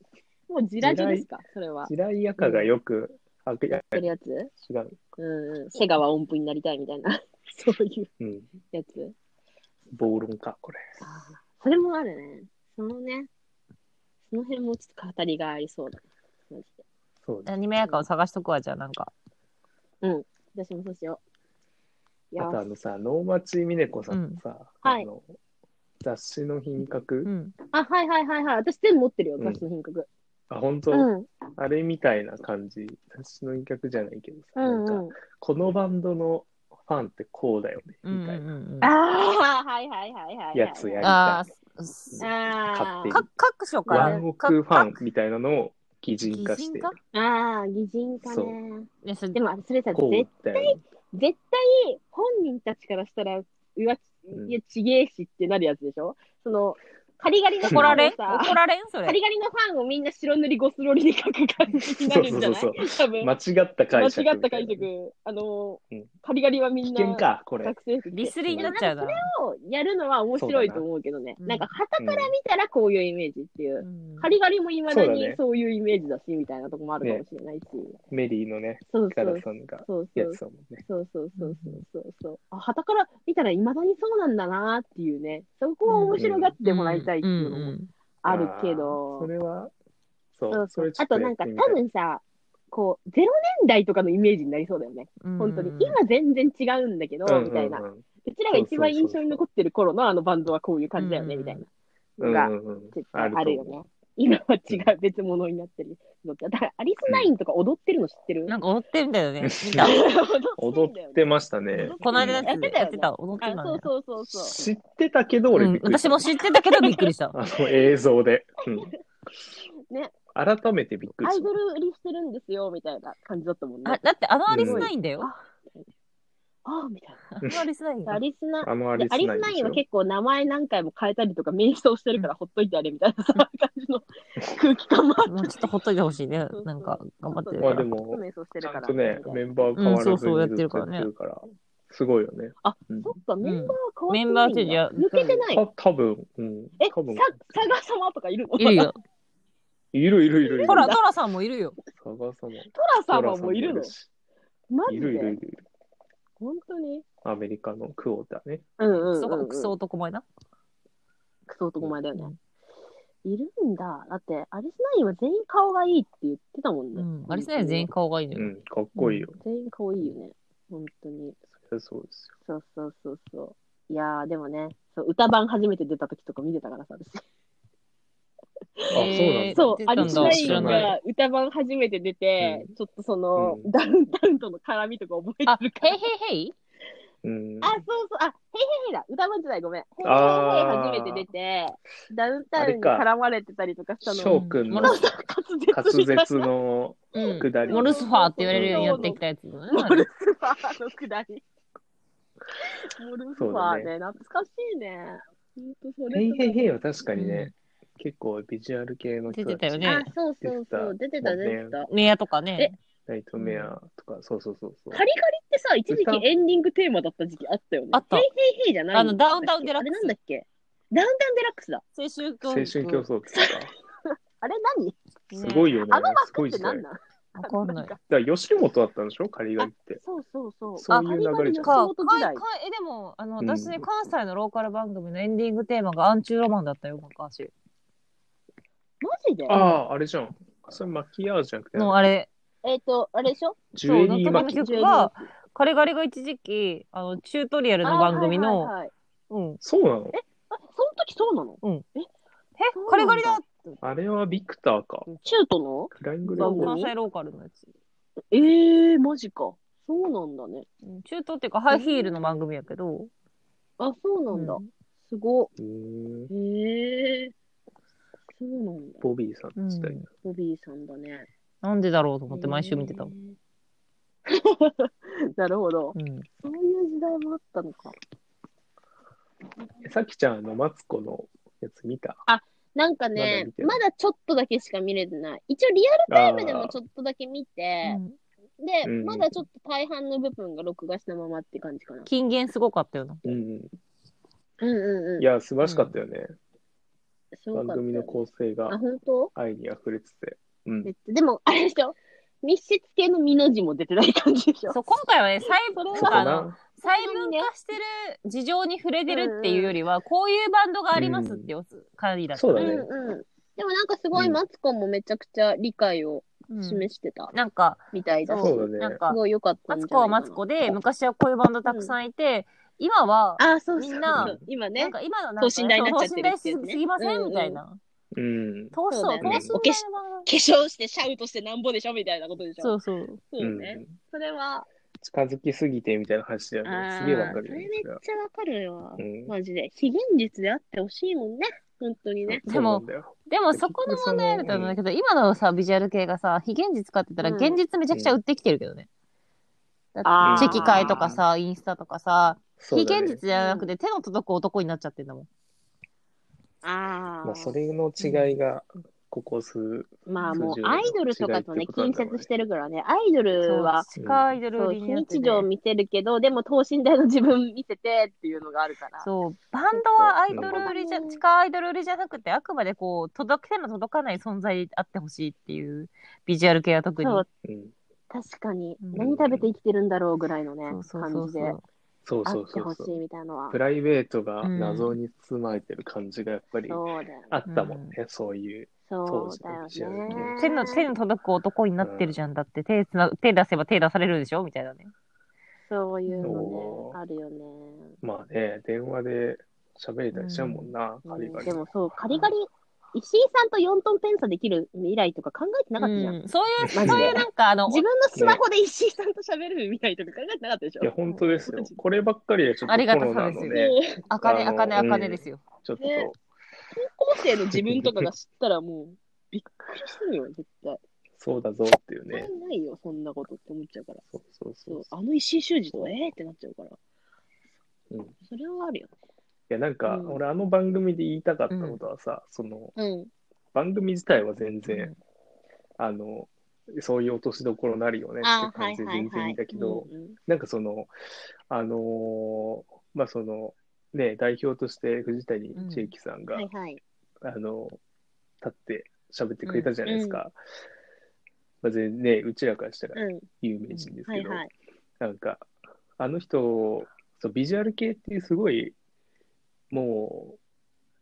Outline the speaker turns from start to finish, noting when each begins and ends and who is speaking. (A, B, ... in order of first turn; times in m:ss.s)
0:00.5-0:02.7 A
0:00.8-0:01.3 B
0:01.9-0:04.1 B
0:03.9-0:04.5 A
0:04.6-0:05.0 B
0:05.2-0:08.1 A
0:08.2-0:08.5 B
0:08.7-0:09.2 A
0:09.9-0:10.9 B
0:11.0-0:13.3 A
0:14.3-0:16.8 A
0:17.2-0:17.5 B
0:17.5-0:19.1 C
0:20.0-0:21.2 A
0:22.3-0:22.6 A
0:22.4-0:25.3 B
0:24.1-0:24.4 C
0:26.0-0:27.3 B
0:27.2-0:27.5 C
0:27.7-0:30.1 A
0:30.5-0:38.4 B
0:30.9-0:31.3 A
0:34.6-0:35.2 A
0:38.0-0:38.9 C
0:38.8-0:41.1 A
0:40.5-0:41.4 B
0:41.0-0:42.2 C
0:42.1-0:43.3 B
0:42.2-0:43.2 A
0:43.1-0:45.0 C
0:43.9-0:44.2 A
0:43.9-0:46.9 B
0:46.3-0:47.0 C
0:47.1-1:03.3 A
0:48.2-0:48.6 B
0:49.0-0:49.4 C
0:49.9-0:50.8 B
0:57.6-0:59.2 C
0:57.6-0:58.0 B
1:01.9-1:04.9 B
1:03.9-1:18.0 A
1:06.8-1:07.8 B
1:08.1-1:09.3 C
1:08.4-1:08.8 B
1:10.4-1:10.8 B
1:11.4-1:11.7 C
1:12.0-1:12.3 B
1:13.8-1:14.3 C
1:14.9-1:15.4 B
1:18.1-1:20.8 B
1:18.9-1:29.3 A
1:21.4-1:21.8 C
1:25.9-1:27.9 C
1:26.2-1:26.5 B
1:28.3-1:29.7 B
1:30.4-1:31.8 B
1:30.5-1:41.7 A
1:35.2-1:36.0 C
1:37.3-1:39.4 B
1:41.0-1:41.6 C
1:42.2-1:43.8 B
1:42.2-1:48.5 A
1:48.5-1:50.0 C
1:49.4-1:50.0 B
1:49.8-1:54.6 A
1:50.6-1:52.5 B
1:51.8-1:53.9 C
1:54.3-1:56.2 B
1:55.5-1:57.4 C
1:56.5-1:57.1 A
1:57.3-1:58.9 B
1:58.7-1:59.0 A
2:00.3-2:01.5 B
2:01.2-2:05.9 A
2:03.9-2:05.3 C
2:04.5-2:04.9 B
2:06.7-2:07.3 A
2:07.4-2:08.2 C
2:08.1-2:15.7 A
2:08.6-2:09.8 B
2:15.3-2:17.9 C
2:16.5-2:19.8 A
2:17.6-2:23.1 B
2:19.8-2:21.1 C
2:22.6-2:25.6 A
2:23.4-2:25.4 C
2:25.5-2:27.7 B
2:26.8-2:28.9 A
2:28.6-2:29.0 C
2:29.9-2:31.0 B
2:30.4-2:31.0 A
2:30.6-2:31.8 C
2:32.0-2:34.1 B
2:32.7-2:33.9 A
2:34.7-2:35.4 A
2:34.9-2:35.6 B
2:36.4-2:37.0 A
2:37.2-2:38.6 B
2:38.8-2:39.7 A
2:39.1-2:40.2 C
2:41.5-2:42.3 A
2:43.2-2:47.9 A
2:47.0-2:49.3 C
2:48.4-2:49.4 B
2:49.4-2:51.4 A
2:51.6-2:52.3 B
2:52.5-2:57.2 A
2:58.8-3:06.0 A
2:58.9-3:00.9 B
2:58.9-3:01.0 C
3:02.4-3:02.7 B
3:03.4-3:03.7 B
3:05.5-3:06.5 C
3:07.2-3:07.8 B
3:07.6-3:16.5 A
3:10.0-3:11.3 B
3:12.6-3:13.1 B
3:14.0-3:15.1 B
3:14.3-3:15.0 C
3:15.7-3:19.1 B
3:17.2-3:21.4 A
3:17.2-3:20.1 C
3:22.6-3:26.7 A
3:23.4-3:23.9 B
3:26.1-3:31.8 B
3:27.2-3:27.5 C
3:29.3-3:30.1 C
3:29.8-3:31.9 A
3:31.9-3:32.7 C
3:33.1-3:35.0 B
3:33.4-3:33.7 C
3:34.9-3:41.8 A
3:35.9-3:36.2 B
3:37.9-3:38.3 C
3:38.9-3:40.1 C
3:42.0-3:43.1 C
3:42.4-3:43.7 B
3:43.3-3:43.6 A
3:44.4-3:48.0 A
3:45.4-3:45.6 C
3:45.4-3:46.8 B
3:47.4-3:47.9 C
3:48.1-3:50.0 B
3:49.6-3:52.4 A
3:50.8-3:51.8 B
3:50.9-3:57.5 C
3:53.4-3:53.9 B
3:59.0-3:59.6 A
3:59.5-4:02.0 B
3:59.5-3:59.8 C
4:01.8-4:02.3 C
4:02.6-4:03.6 A
4:03.7-4:04.6 B
4:03.8-4:08.7 C
4:04.3-4:05.2 A
4:07.8-4:08.9 A
4:09.3-4:09.6 C
4:09.6-4:10.2 B
4:10.1-4:12.1 A
4:12.6-4:13.8 C
4:12.7-4:13.4 A
4:13.8-4:15.1 B
4:15.1-4:15.4 C
4:15.2-4:16.9 A
4:15.9-4:16.8 B
4:16.3-4:17.6 C
4:18.3-4:20.7 A
4:20.8-4:23.1 C
4:21.7-4:22.4 A
4:23.8-4:25.5 A
4:24.3-4:24.6 C
4:25.6-4:26.3 B
4:26.3-4:27.3 A
4:28.4-4:29.0 A
4:29.0-4:30.0 B
4:29.6-4:30.0 C
4:30.2-4:31.3 A
4:31.6-4:33.1 C
4:32.3-4:33.4 A
4:34.3-4:38.0 A
4:36.0-4:36.3 C
4:39.8-4:42.2 B
4:42.3-4:48.0 A
4:43.2-4:43.8 B
4:46.1-4:46.8 B
4:47.8-4:48.2 C
4:48.6-4:52.1 A
4:48.8-4:49.3 B
4:52.1-4:53.4 C
4:53.2-4:53.7 B
4:54.6-4:55.3 A
4:55.2-4:56.3 B
4:55.6-4:55.9 C
4:57.3-4:59.3 A
4:57.5-4:58.8 B
4:59.4-5:00.9 B
5:00.8-5:04.8 A
5:04.7-5:12.9 C
5:05.7-5:07.5 A
5:06.0-5:06.6 B
5:09.1-5:09.8 A
5:11.0-5:11.5 B
5:12.3-5:12.9 B
5:12.6-5:17.3 A
5:14.1-5:14.4 B
5:16.5-5:19.2 C
5:17.9-5:20.4 A
5:18.4-5:19.0 B
5:19.7-5:27.8 C
5:21.6-5:21.9 A
5:23.4-5:27.6 A
5:24.1-5:24.4 B
5:28.1-5:29.6 B
5:28.7-5:30.3 C
5:28.9-5:32.8 A
5:32.6-5:33.2 C
5:33.3-5:34.7 A
5:33.4-5:34.0 B
5:35.0-5:38.0 B
5:36.6-5:42.4 A
5:37.0-5:37.4 C
5:39.0-5:39.3 B
5:42.3-5:44.8 B
5:42.5-5:48.9 C
5:47.2-5:47.6 A
5:47.9-5:48.2 B
5:50.0-5:55.3 C
5:50.0-5:51.1 A
5:50.2-5:51.2 B
5:52.6-5:53.2 B
5:53.3-5:53.7 A
5:56.6-5:57.5 A
5:57.2-6:02.3 B
5:58.0-5:58.4 C
6:00.1-6:03.9 A
6:00.2-6:00.5 C
6:03.4-6:05.5 C
6:04.0-6:04.3 B
6:04.5-6:09.1 A
6:09.0-6:17.2 C
6:09.7-6:11.2 A
6:10.3-6:10.6 B
6:17.0-6:17.3 A
6:17.4-6:17.7 B
6:18.1-6:21.6 A
6:18.8-6:19.1 C
6:19.0-6:19.5 B
6:20.7-6:21.6 C
6:22.0-6:23.0 B
6:22.2-6:23.6 A
6:23.5-6:30.4 B
6:24.4-6:25.0 C
6:26.7-6:27.4 A
6:27.5-6:28.0 C
6:28.9-6:30.9 A
6:30.1-6:34.9 C
6:31.8-6:32.2 B
6:35.7-6:38.0 A
6:36.1-6:36.4 C
6:36.2-6:37.0 B
6:38.0-6:41.6 B
6:40.1-6:40.7 C
6:41.0-6:46.2 A
6:45.8-6:47.8 C
6:46.7-6:50.9 A
6:46.8-6:47.2 B
6:48.2-6:48.4 B
6:50.8-6:56.2 B
6:51.1-6:51.4 C
6:51.5-6:51.8 A
6:52.7-6:55.4 C
6:53.5-6:54.0 A
6:55.8-6:56.1 A
6:56.8-7:00.8 A
6:57.5-6:58.1 B
7:01.2-7:02.3 B
7:02.1-7:04.0 A
7:04.1-7:04.9 B
7:04.7-7:06.8 A
7:08.2-7:08.9 A
7:09.5-7:12.7 B
7:09.8-7:10.2 A
7:11.5-7:11.8 C
7:12.8-7:13.1 A
7:13.5-7:14.9 B
7:14.7-7:15.0 C
7:15.8-7:20.9 B
7:18.2-7:20.2 A
7:21.5-7:26.5 B
7:25.5-7:25.9 C
7:26.3-7:26.8 A
7:27.2-7:27.8 B
7:28.4-7:30.4 B
7:29.4-7:29.7 C
7:29.8-7:30.2 A
7:31.6-7:34.4 B
7:33.0-7:33.3 A
7:34.1-7:34.5 A
7:35.0-7:38.8 B
7:39.7-7:40.4 B